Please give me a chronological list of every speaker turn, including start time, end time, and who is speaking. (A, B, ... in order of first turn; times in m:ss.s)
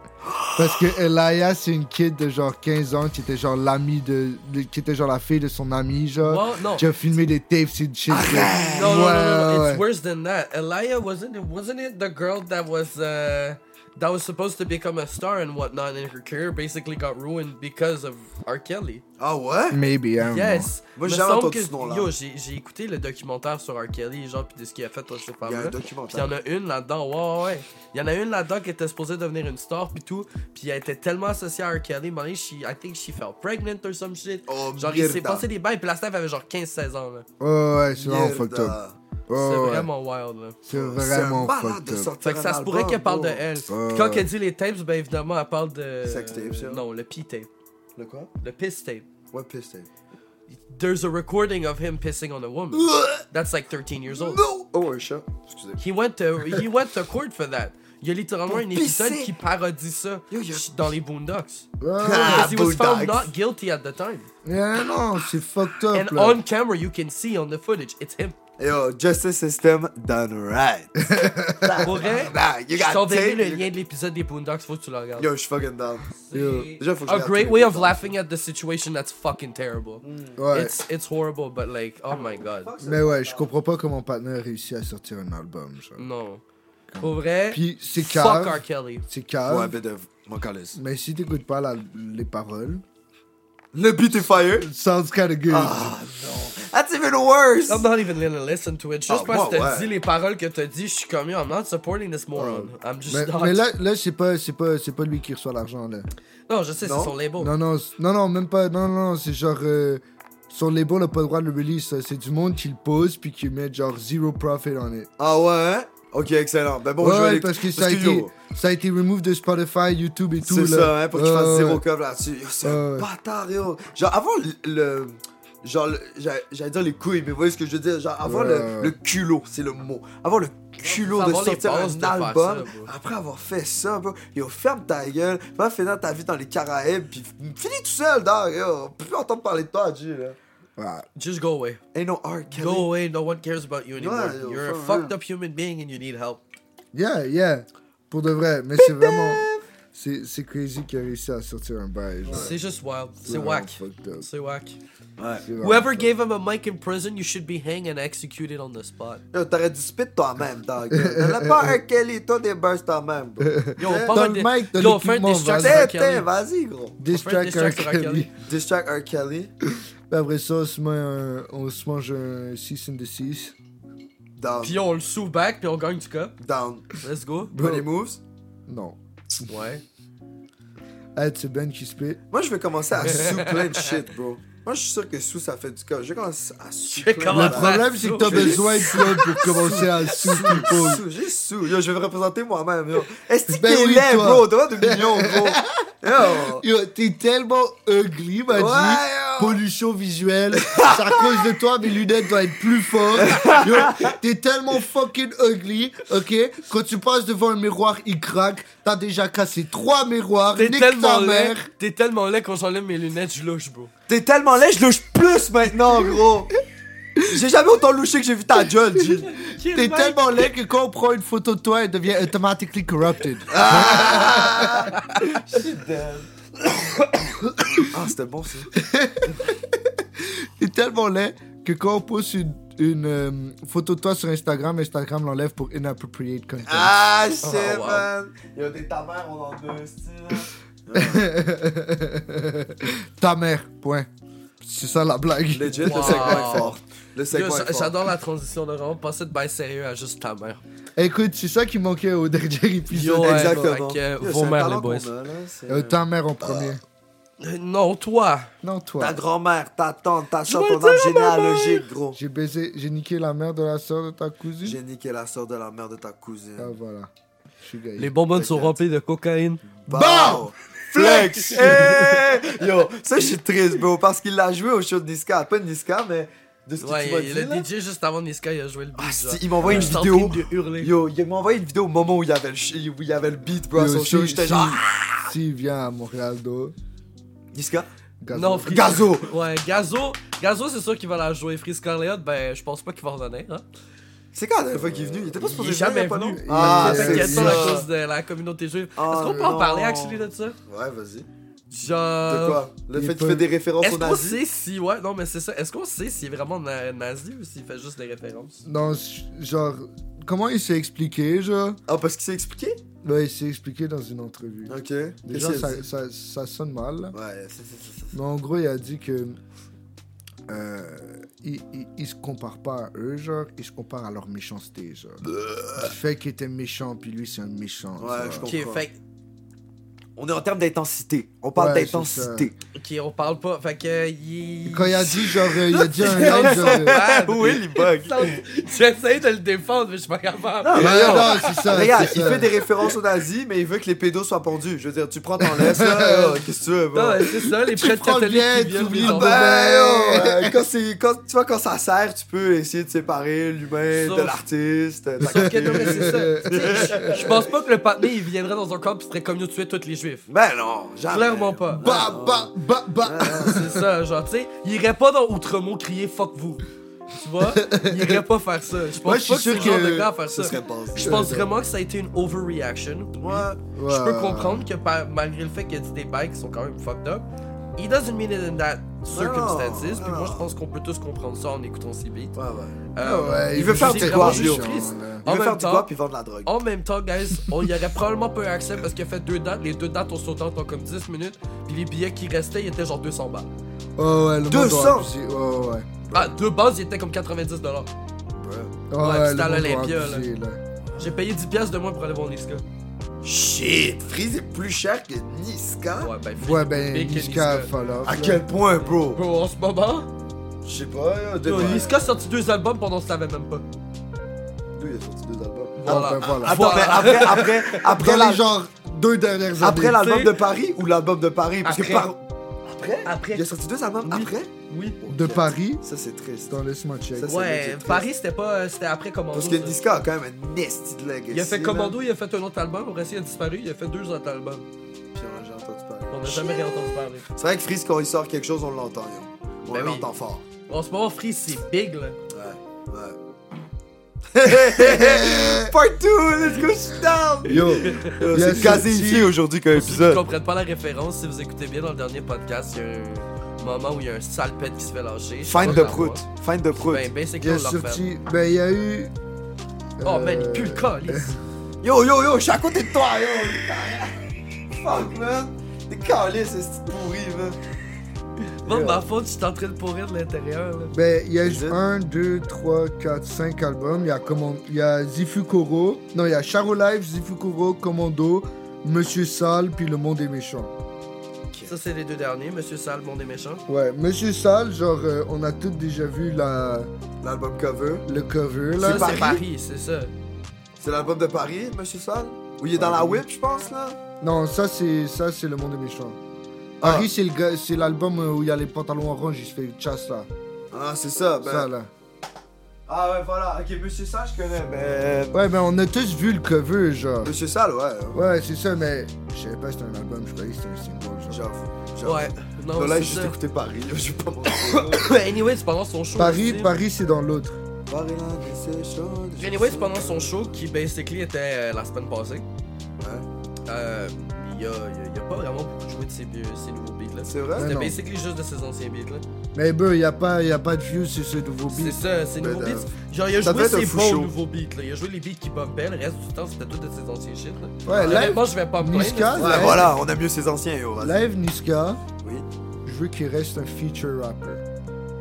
0:00.2-0:00.8 A
0:00.6-0:09.8 B
0:06.2-0:06.9 C
0:08.1-0:09.1 A
0:08.7-0:19.0 C
0:19.2-0:19.8 A
0:19.7-0:20.7 B
0:20.2-0:37.3 C
0:21.0-0:22.1 A
0:25.4-0:26.3 A
0:34.5-0:35.5 A
0:37.4-0:38.8 B
0:38.0-0:39.0 A
0:39.3-0:39.9 B
0:39.4-0:40.6 C
0:40.6-0:42.1 B
0:40.7-0:43.4 A
0:42.2-0:47.5 C
0:43.7-0:44.3 B
0:46.0-0:46.8 A
0:48.0-0:48.3 A
0:48.4-0:49.1 C
0:49.3-0:49.9 A
0:50.5-0:54.4 C
0:52.8-0:53.2 A
0:54.1-0:55.8 A
0:55.8-1:04.3 C
0:58.5-0:59.3 A
1:00.3-1:00.9 A
1:01.8-1:02.6 B
1:02.0-1:03.3 A
1:04.4-1:06.4 B
1:05.9-1:08.4 C
1:08.6-1:13.7 A
1:11.0-1:12.0 B
1:11.8-1:15.3 C
1:15.2-1:16.1 A
1:16.2-1:22.7 C
1:16.3-1:16.7 B
1:16.8-1:18.1 A
1:20.0-1:20.4 A
1:20.4-1:20.8 B
1:22.1-1:23.5 A
1:22.8-1:26.0 B
1:26.0-1:26.4 C
1:26.9-1:29.7 B
1:27.0-1:29.1 C
1:29.5-1:30.8 A
1:30.8-1:32.8 B
1:33.7-1:34.7 A
1:34.6-1:36.0 B
1:35.5-1:37.9 A
1:37.7-1:43.6 C
1:39.1-1:39.9 A
1:42.3-1:46.1 B
1:46.5-1:47.5 C
1:46.8-1:47.2 A
1:47.4-1:55.1 B
1:55.2-1:58.3 A
1:57.0-2:01.8 B
2:00.4-2:20.4 A
2:02.6-2:03.1 B
2:08.2-2:09.0 B
2:10.8-2:12.9 C
2:20.8-2:21.1 B
2:21.2-2:21.8 C
2:21.9-2:22.9 A
2:22.5-2:26.4 C
2:24.0-2:25.2 A
2:26.9-2:32.6 B
2:28.8-2:29.6 A
2:32.2-2:32.6 A
2:32.3-2:34.8 C
2:33.2-2:34.3 B
2:35.2-2:35.5 A
2:35.4-2:36.1 B
2:35.6-2:39.2 C
2:39.3-2:44.2 A
2:40.9-2:41.8 B
2:43.4-2:45.9 B
2:43.8-2:46.3 C
2:45.5-2:47.0 A
2:47.0-2:48.3 B
2:47.1-2:48.3 C
2:48.4-2:49.5 A
2:49.8-2:53.6 B
2:54.4-2:54.8 A
2:54.6-2:56.3 C
2:56.4-2:57.0 A
2:57.0-2:57.5 C
2:57.5-2:57.9 B
2:57.5-2:58.2 A
2:58.7-2:59.0 B
2:59.5-2:59.8 C
3:01.2-3:02.2 B
3:02.3-3:16.6 A
3:03.0-3:04.0 C
3:06.9-3:10.7 C
3:07.3-3:11.0 B
3:13.5-3:31.7 B
3:18.5-3:19.6 A
3:20.6-3:21.5 A
3:23.2-3:24.2 A
3:30.6-3:33.9 C
3:34.1-3:36.6 A
3:37.2-3:39.4 A
3:39.1-3:45.0 B
3:39.3-3:40.5 C
3:43.5-3:46.3 A
3:47.5-3:47.9 B
3:47.8-3:48.7 A
3:48.7-3:56.9 B
3:56.7-4:01.3 A
3:57.4-3:58.1 C
4:00.9-4:04.1 B
4:04.6-4:06.8 B
4:05.5-4:08.0 A
4:05.8-4:06.7 C
4:07.3-4:10.6 C
4:11.0-4:13.7 B
4:12.9-4:15.1 C
4:13.2-4:16.8 A
4:15.7-4:16.8 B
4:17.4-4:18.5 C
4:18.6-4:19.2 B
4:19.0-4:22.2 A
4:20.5-4:21.9 C
4:22.2-4:24.8 B
4:24.6-4:26.8 A
4:26.6-4:27.1 B
4:27.6-4:28.1 B
4:28.0-4:29.6 C
4:28.3-4:28.8 A
4:29.8-4:37.7 A
4:29.9-4:32.3 B
4:31.0-4:32.1 C
4:36.8-4:40.9 C
4:39.0-4:45.3 A
4:39.6-4:40.0 B
4:43.8-4:46.8 B
4:47.5-4:47.9 A
4:48.2-4:49.0 B
4:48.3-4:53.6 C
4:48.7-4:49.3 A
4:54.3-4:57.9 A
4:55.3-5:00.6 C
4:56.4-4:57.9 B
4:59.0-5:01.3 A
5:01.7-5:02.6 C
5:02.3-5:04.4 A
5:02.9-5:03.5 B
5:03.8-5:08.6 C
5:08.6-5:11.8 B
5:11.9-5:12.8 A
5:13.0-5:17.2 B
5:14.7-5:15.8 A
5:17.1-5:18.2 A
5:18.1-5:19.4 B
5:20.5-5:28.5 B
5:25.5-5:25.8 A
5:28.0-5:28.9 A
5:28.4-5:29.0 C
5:30.2-5:32.6 A
5:31.6-5:32.5 B
5:32.8-5:42.1 C
5:34.7-5:37.0 B
5:35.7-5:38.4 A
5:40.6-5:47.3 A
5:40.8-5:42.6 B
5:45.4-5:46.4 B
5:46.9-5:49.4 C
5:47.6-5:50.6 B
5:49.0-5:57.5 A
5:53.9-5:54.4 C
5:55.2-6:00.3 C
5:55.2-5:57.4 B
6:00.3-6:03.8 A
6:01.1-6:01.8 C
6:01.8-6:03.8 B
6:03.4-6:17.3 C
6:07.5-6:08.2 B
6:09.0-6:10.1 B
6:09.2-6:11.4 A
6:11.0-6:11.5 B
6:13.1-6:13.6 A
6:13.7-6:14.7 B
6:17.8-6:22.4 C
6:19.1-6:20.5 A
6:22.4-6:22.9 A
6:23.0-6:25.9 C
6:23.0-6:25.2 B
6:23.5-6:26.5 A
6:26.4-6:33.5 C
6:34.0-6:36.0 B
6:34.5-6:35.1 A
6:36.1-6:37.9 C
6:38.4-6:38.8 A
6:38.9-6:40.6 B
6:39.0-6:40.3 C
6:41.0-6:42.6 C
6:43.2-6:46.1 A
6:46.0-6:47.7 C
6:46.4-6:48.4 B
6:48.0-6:49.2 A
6:48.8-6:50.1 C
6:50.6-6:52.0 A
6:51.4-6:53.6 C
6:54.8-6:58.4 A
6:55.8-6:57.8 C
6:55.9-6:56.8 B
6:57.9-7:00.0 B
6:59.6-7:06.6 A
7:00.0-7:00.3 C
7:01.6-7:02.1 C
7:03.0-7:03.5 C
7:04.0-7:05.0 C
7:05.1-7:05.8 B
7:06.5-7:07.4 B
7:07.1-7:08.1 A
7:07.3-7:09.8 C
7:09.3-7:12.0 A
7:11.3-7:14.7 C
7:15.1-7:20.4 A
7:16.1-7:17.2 C
7:19.7-7:20.1 C
7:20.7-7:22.2 C
7:22.3-7:23.2 A
7:24.3-7:30.2 A
7:24.5-7:25.7 B
7:27.5-7:29.4 B
7:27.8-7:28.2 C
7:29.7-7:36.2 C
7:35.5-7:37.1 A
7:36.8-7:38.0 C
7:37.4-7:39.1 B
7:40.0-7:41.4 B
7:40.0-7:41.4 C
7:41.8-7:47.6 A
7:48.6-7:51.0 C
7:48.7-7:49.0 A
7:50.9-8:00.7 B
7:51.4-7:51.8 A
8:01.6-8:03.6 C
8:03.7-8:06.9 B
8:07.2-8:08.1 A
8:08.1-8:09.2 B
8:08.8-8:09.4 A
8:08.8-8:10.1 C
8:10.8-8:14.0 A
8:12.7-8:13.2 B
8:14.2-8:16.2 B
8:16.8-8:17.1 A
8:16.8-8:20.3 B
8:20.7-8:21.7 A
8:21.4-8:21.9 B
8:22.9-8:25.4 A
8:25.3-8:27.3 B
8:27.2-8:28.2 A
8:28.1-8:31.4 B
8:31.3-8:35.2 A
8:32.0-8:33.4 C
8:34.5-8:36.7 C
8:36.2-8:37.6 B
8:37.9-8:40.4 A
8:39.4-8:42.4 C
8:43.0-8:43.3 A
8:43.7-8:49.2 C
8:47.3-8:47.7 A
8:47.6-8:48.0 B
8:49.5-8:52.0 B
8:51.7-8:59.8 C
8:52.4-8:54.3 A
8:57.8-9:00.0 B
8:59.4-9:01.2 A
9:01.0-9:02.0 B
9:02.8-9:04.6 B